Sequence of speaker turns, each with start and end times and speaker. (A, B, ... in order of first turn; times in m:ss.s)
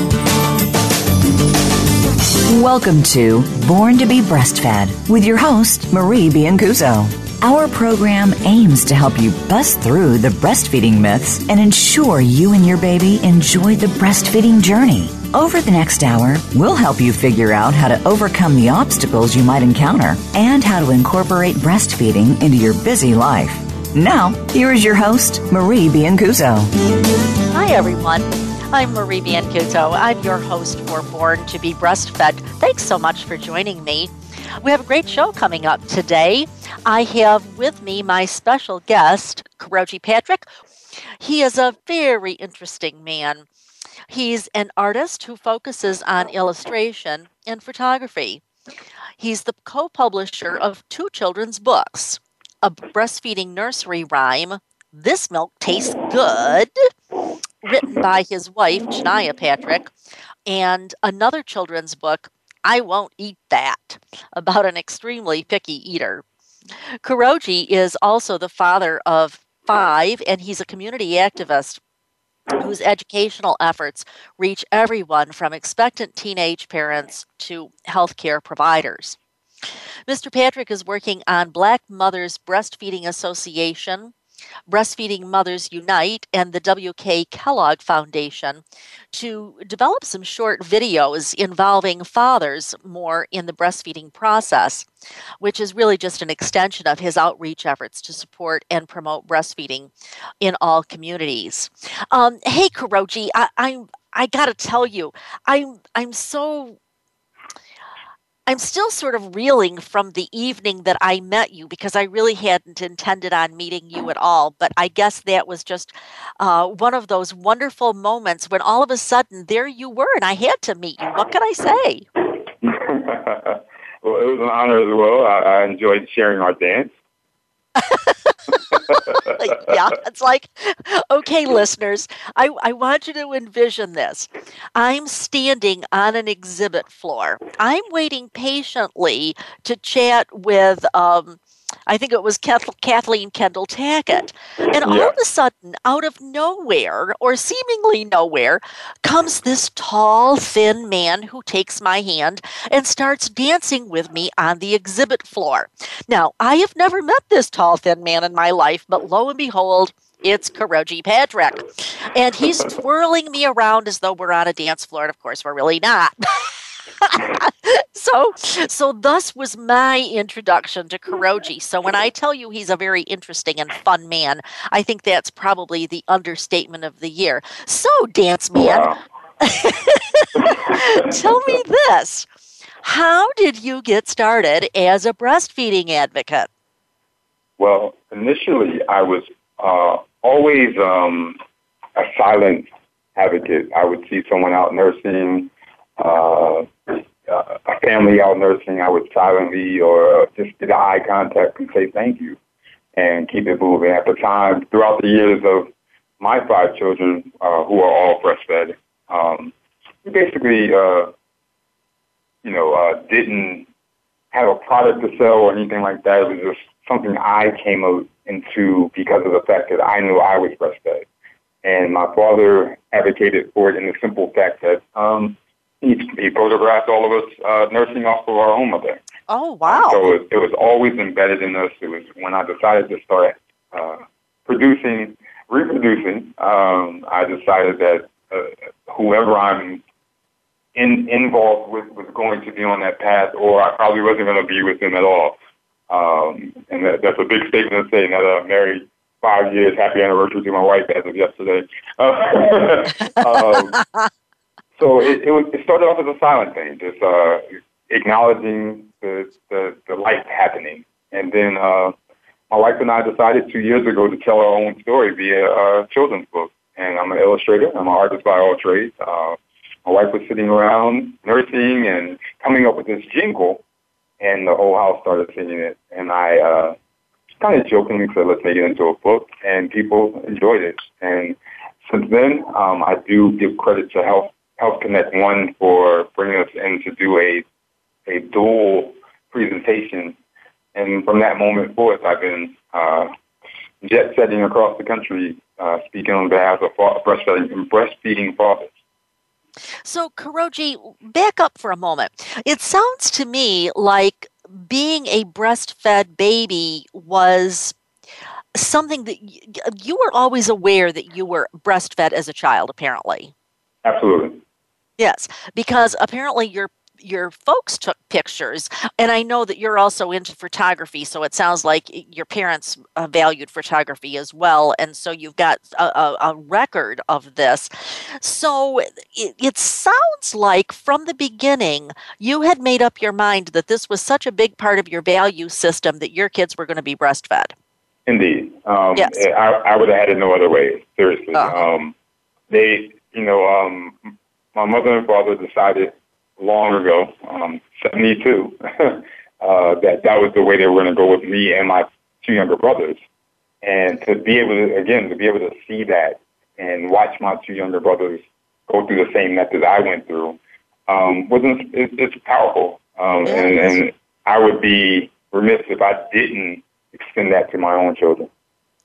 0:02.5-0:26.7 A
0:27.5-0:40.4 B
0:41.2-0:43.5 B
0:44.1-0:48.4 B
0:49.2-0:56.7 B
0:57.6-0:59.9 B
1:00.5-1:06.2 B
1:07.0-1:11.8 B
1:12.6-1:19.2 B
1:20.1-1:24.1 B
1:24.7-1:34.9 B
1:35.4-1:46.8 B
1:48.5-2:02.0 B
2:02.6-2:06.9 C
2:07.8-2:58.9 B
2:08.7-2:09.2 C
2:24.8-2:25.1 C
2:58.5-2:59.0 C
2:59.4-3:02.3 B
3:00.4-3:01.2 C
3:02.8-3:06.5 B
3:07.6-3:11.4 C
3:12.0-3:22.4 C
3:23.0-3:31.1 C
3:32.4-3:33.7 C
3:34.3-3:41.0 C
3:41.6-3:49.0 C
3:49.3-3:50.0 B
3:49.6-3:59.8 C
4:00.7-4:05.4 C
4:05.9-4:13.8 C
4:13.7-4:14.1 B
4:14.8-4:21.9 C
4:22.5-4:33.6 C
4:34.2-4:36.8 C
4:37.4-4:47.4 C
4:48.1-4:50.2 C
4:50.7-4:53.1 C
4:53.8-4:58.7 C
4:59.8-5:07.8 B
5:08.5-5:13.3 B
5:13.8-5:14.4 C
5:15.0-5:37.5 B
5:38.1-5:41.9 C
5:41.3-5:41.6 B
5:42.5-5:53.0 C
5:53.6-6:08.3 C
6:03.2-6:03.8 B